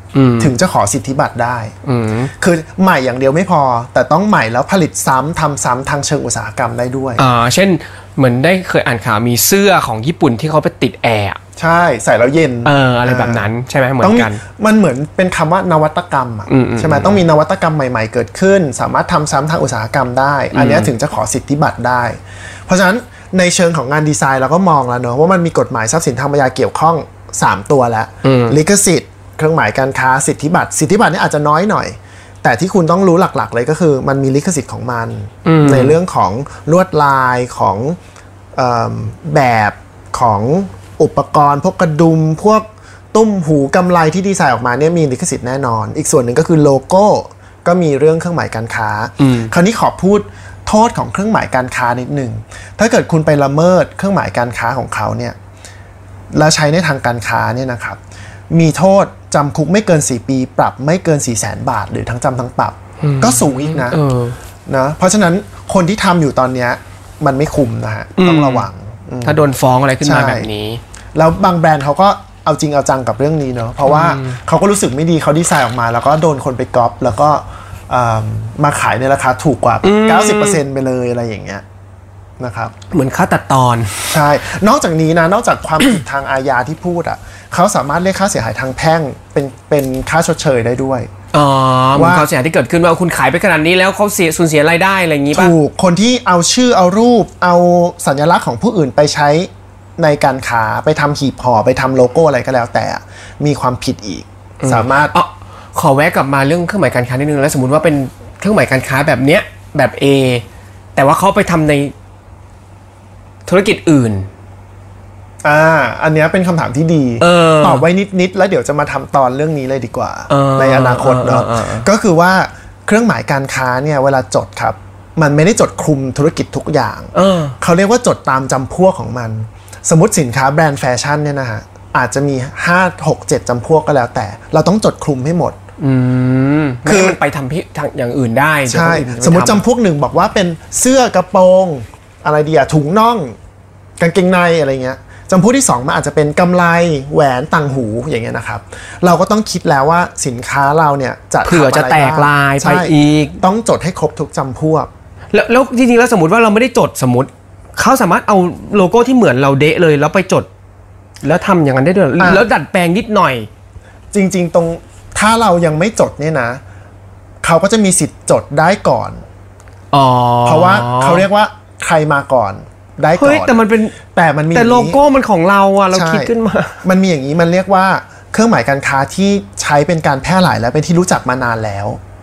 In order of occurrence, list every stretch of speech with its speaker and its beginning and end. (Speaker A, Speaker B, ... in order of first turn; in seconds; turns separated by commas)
Speaker A: 0.1-0.6, Speaker B: 0.4-1.7, Speaker A: 1.9-2.3, Speaker B: 2.4-7.2, Speaker A: 7.2-11.4, Speaker B: 11.6-13.5, Speaker A: 12.6-14.4, Speaker B: 14.0-38.0, Speaker A: 16.5-17.2, Speaker A: 20.5-20.9, Speaker A: 28.2-28.6, Speaker A: 35.5-36.0, Speaker B: 38.5-55.4, Speaker A: 49.2-49.5, Speaker B: 56.3-58.0, Speaker B: 58.5-64.0, Speaker A: 63.0-64.4, Speaker B: 64.7-69.4, Speaker A: 68.2-68.7, Speaker A: 69.2-70.8, Speaker B: 70.0-70.5, Speaker B: 71.1-81.6, Speaker A: 73.8-74.4, Speaker A: 79.8-80.6, Speaker B: 82.4-82.7, Speaker A: 82.9-84.2, Speaker B: 84.1-91.1, Speaker A: 91.3-95.5, Speaker B: 92.0-92.3, Speaker B: 95.3-105.1, Speaker A: 104.6-111.9, Speaker A: 113.5-114.3, Speaker B: 115.4-135.6, Speaker A: 117.2-117.9, Speaker A: 120.3-121.9, Speaker A: 127.1-127.6, Speaker A: 135.8-139.6, Speaker B: 136.8-137.2, Speaker B: 138.7-143.4, Speaker B: 144.0-154.9, Speaker A: 151.4-153.4, Speaker A: 155.3-160.5, Speaker A: 161.2-163.5, Speaker B: 162.2-162.5, Speaker B: 164.1-166.6, Speaker B: 167.4-169.2, Speaker A: 169.9-171.2, Speaker B: 170.5-173.6, Speaker A: 173.1-174.0, Speaker B: 174.1-175.0, Speaker A: 174.5-176.8, Speaker B: 175.9-176.3, Speaker B: 176.8-182.0